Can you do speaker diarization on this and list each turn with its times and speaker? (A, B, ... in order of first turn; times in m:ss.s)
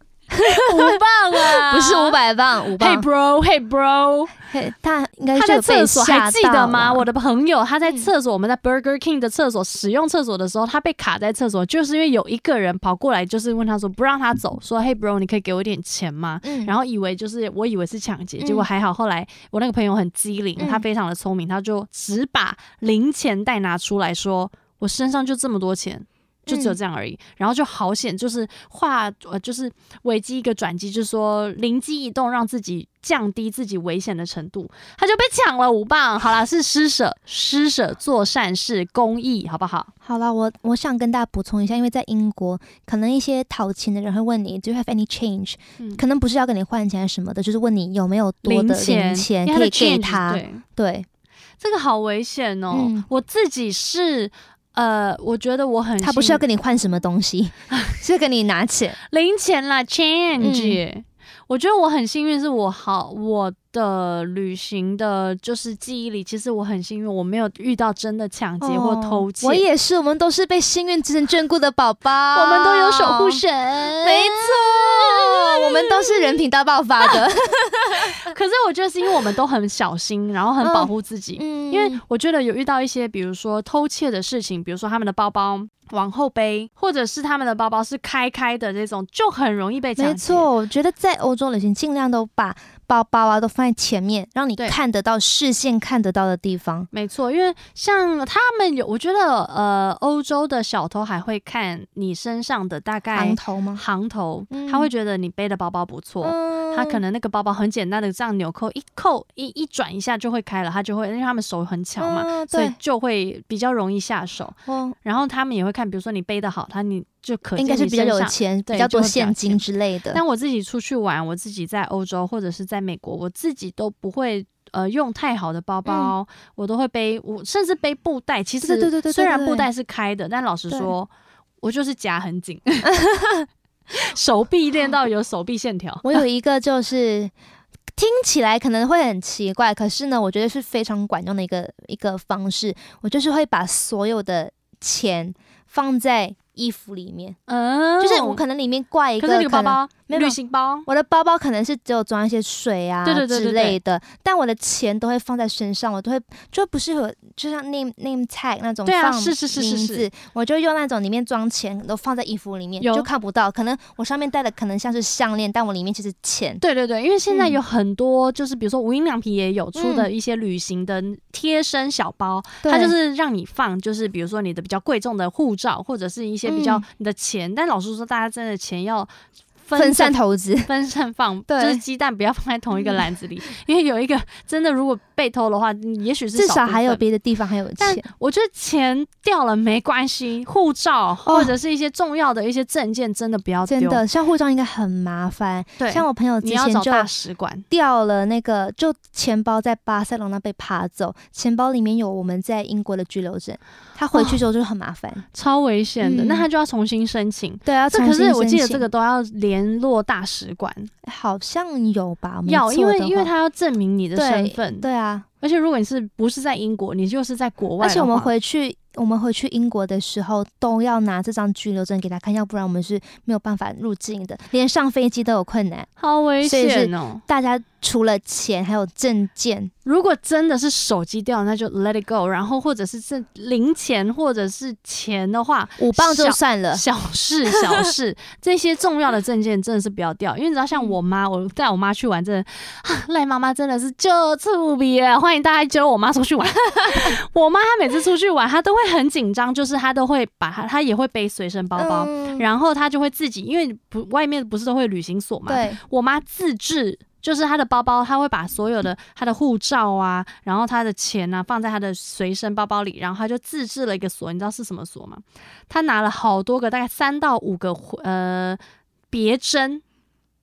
0:00.3-0:03.1 A
0:00.5-0:02.2 B
0:02.7-0:04.3 B
0:04.4-0:07.1 A
0:05.3-0:39.9 B
0:16.4-0:16.7 A
0:18.4-0:18.7 A
0:20.6-0:20.8 A
0:26.5-0:26.8 A
0:40.0-0:51.1 A
0:48.4-0:50.6 B
0:51.6-0:56.4 B
0:52.7-0:53.1 A
0:56.0-0:59.0 A
0:57.7-0:58.0 B
0:59.1-1:09.6 B
1:00.4-1:00.8 A
1:08.6-1:13.4 A
1:12.3-1:16.4 B
1:14.0-1:18.2 A
1:18.2-1:30.5 B
1:20.6-1:22.0 A
1:30.0-1:36.9 A
1:36.9-2:11.1 B
1:43.1-1:43.8 A
1:44.5-1:44.9 A
1:46.2-1:47.0 A
1:52.0-1:52.8 A
1:54.7-1:55.0 A
1:57.6-2:00.2 A
2:05.8-2:06.1 A
2:08.6-2:09.7 A
2:11.6-2:12.9 B
2:12.9-2:13.4 A
2:13.9-2:16.2 B
2:16.0-2:17.3 A
2:18.0-2:27.4 A
2:27.5-2:28.4 B
2:28.0-2:46.6 A
2:29.2-2:30.9 B
2:33.0-2:33.8 B
2:38.8-2:40.1 B
2:42.8-2:43.1 B
2:46.6-2:59.1 B
2:47.3-2:47.6 A
2:49.8-2:50.1 A
2:52.6-2:52.9 A
2:56.4-2:56.8 A
2:59.6-3:07.0 B
2:59.8-3:00.7 A
3:01.5-3:01.8 A
3:02.7-3:03.1 A
3:06.3-3:08.1 A
3:07.8-3:14.0 B
3:11.3-3:11.5 A
3:13.7-3:17.1 A
3:15.8-3:17.6 B
3:17.7-3:25.2 A
3:25.3-3:30.9 B
3:26.0-3:26.4 A
3:27.7-3:28.8 A
3:31.0-3:33.3 A
3:32.5-3:34.9 B
3:34.2-3:35.2 A
3:35.4-3:38.3 B
3:37.8-3:45.9 A
3:46.0-3:47.2 B
3:46.4-3:49.7 A
3:49.8-4:28.6 B
3:55.8-3:56.8 A
3:57.5-3:57.9 A
4:11.8-4:12.4 A
4:15.5-4:15.8 A
4:29.1-4:29.8 B